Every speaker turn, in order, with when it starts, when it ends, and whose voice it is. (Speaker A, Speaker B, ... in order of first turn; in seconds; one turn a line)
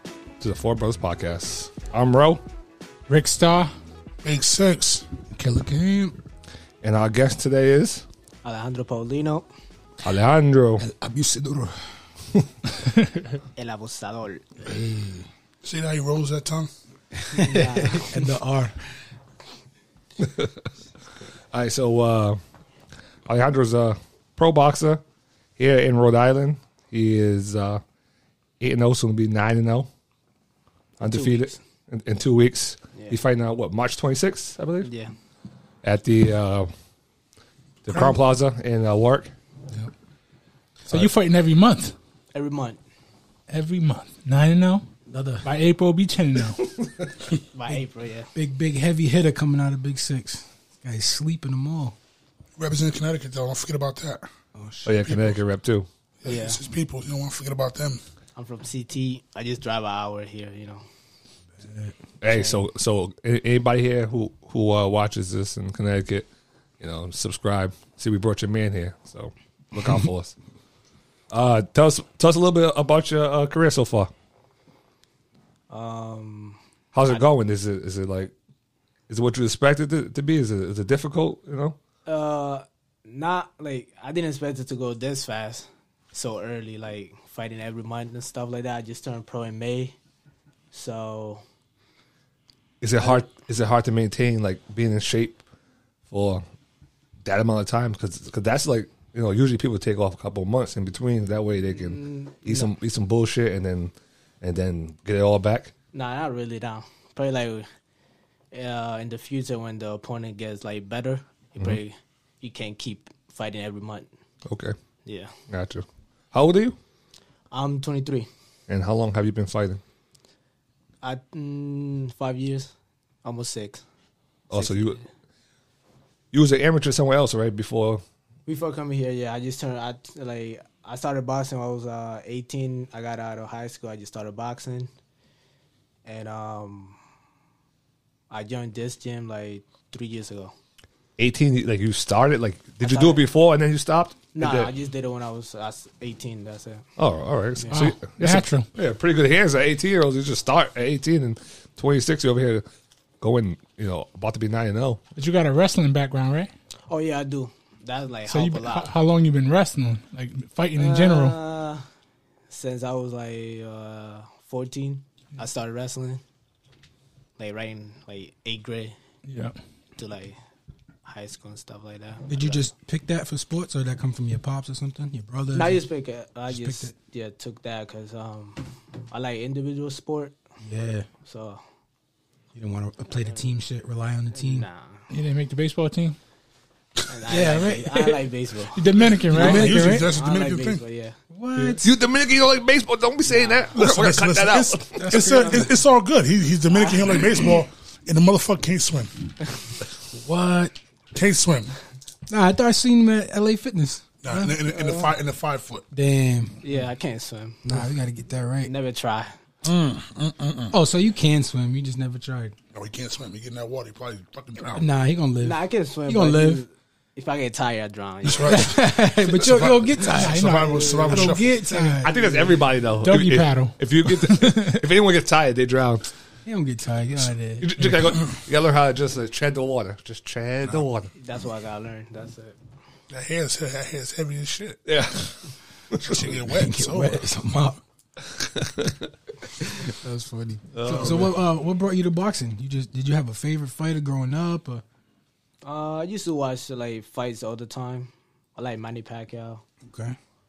Speaker A: 0.4-2.4
Speaker B: 3.1-3.7
Speaker C: 4.2-5.1
Speaker D: 5.3-6.2
Speaker A: 6.8-8.0
Speaker E: 8.4-9.4
Speaker A: 10.0-10.8
Speaker D: 10.8-11.8
Speaker B: 12.8-13.4
Speaker E: 13.6-14.5
Speaker D: 14.6-15.3
Speaker C: 15.6-16.7
Speaker D: 17.1-18.8
Speaker E: 17.3-18.2
Speaker A: 20.2-20.5
Speaker A: 21.5-22.4
Speaker A: 23.3-25.0
Speaker A: 25.6-27.8
Speaker A: 28.6-29.9
Speaker A: 31.0-34.9
Speaker E: 31.0-31.6
Speaker E: 34.8-35.1
Speaker A: 35.8-36.7
Speaker A: 37.8-39.3
Speaker C: 37.9-38.2
Speaker B: 40.9-41.9
Speaker E: 42.3-42.8
Speaker B: 43.5-44.8
Speaker D: 45.1-45.5
Speaker B: 45.4-46.6
Speaker E: 47.5-48.3
Speaker D: 48.3-52.0
Speaker C: 52.6-54.3
Speaker D: 54.5-55.1
Speaker A: 54.8-55.9
Speaker C: 55.0-55.4
Speaker C: 56.2-58.0
Speaker E: 56.2-56.6
Speaker E: 58.4-60.8
Speaker D: 61.6-62.0
Speaker A: 62.2-66.3
Speaker E: 62.3-62.6
Speaker A: 66.8-70.3
Speaker A: 71.3-74.1
Speaker E: 75.7-77.2
Speaker A: 76.9-78.3
Speaker A: 79.1-81.8
Speaker E: 82.1-90.0
Speaker E: 90.7-91.4
Speaker A: 92.8-95.4
Speaker E: 93.0-93.2
Speaker A: 96.1-96.4
Speaker A: 97.2-105.7
Speaker E: 101.7-102.7
Speaker E: 105.9-107.7
Speaker E: 108.5-114.1
Speaker A: 114.5-114.7
Speaker E: 115.0-115.3
Speaker A: 115.5-116.8
Speaker E: 117.5-118.3
Speaker A: 118.7-119.8
Speaker E: 121.0-122.7
Speaker E: 123.2-123.8
Speaker A: 124.5-125.0
Speaker E: 124.5-125.0
Speaker A: 126.3-128.0
Speaker E: 128.5-134.9
Speaker E: 136.0-137.0
Speaker E: 138.3-140.5
Speaker A: 141.2-144.7
Speaker E: 142.8-143.2
Speaker E: 144.3-146.8
Speaker A: 147.0-152.6
Speaker B: 147.7-148.7
Speaker A: 153.2-155.0
Speaker B: 155.2-156.5
Speaker E: 156.9-158.9
Speaker B: 158.3-161.4
Speaker E: 160.8-161.8
Speaker E: 162.5-166.2
Speaker E: 167.4-168.9
Speaker B: 169.3-169.6
Speaker E: 170.0-170.4
Speaker E: 171.0-172.7
Speaker D: 172.3-175.8
Speaker E: 175.5-180.4
Speaker D: 176.5-176.9
Speaker D: 180.6-181.1
Speaker E: 181.2-181.6
Speaker D: 182.5-184.7
Speaker E: 183.2-183.5
Speaker E: 184.3-185.1
Speaker B: 185.1-186.2
Speaker E: 187.1-188.8
Speaker D: 187.3-188.2
Speaker B: 188.7-189.8
Speaker C: 189.3-190.8
Speaker D: 189.3-190.1
Speaker E: 189.6-191.2
Speaker D: 191.3-191.9
Speaker A: 191.8-195.0
Speaker E: 193.3-193.7
Speaker C: 193.7-199.2
Speaker D: 194.9-195.7
Speaker E: 196.7-197.3
Speaker D: 200.1-200.8
Speaker C: 201.1-201.7
Speaker D: 202.3-204.6
Speaker C: 204.2-205.8
Speaker E: 204.7-205.1
Speaker D: 205.9-206.8
Speaker E: 206.6-207.9
Speaker D: 207.6-208.7
Speaker E: 208.6-209.3
Speaker C: 209.6-210.7
Speaker D: 210.7-212.5
Speaker C: 212.7-214.8
Speaker D: 214.7-216.6
Speaker E: 215.4-218.8
Speaker C: 218.2-222.0
Speaker D: 218.4-222.5
Speaker B: 220.1-221.3
Speaker E: 220.7-221.2
Speaker A: 222.0-226.1
Speaker E: 222.1-222.5
Speaker B: 223.0-224.9
Speaker D: 226.4-228.2
Speaker A: 227.6-231.1
Speaker E: 231.2-232.6
Speaker C: 233.1-234.8
Speaker A: 234.9-235.3
Speaker A: 235.9-236.2
Speaker C: 235.9-237.3
Speaker D: 236.4-237.8
Speaker A: 238.4-238.9
Speaker D: 239.6-244.8
Speaker A: 240.7-241.3
Speaker E: 245.6-249.6
Speaker D: 249.8-250.2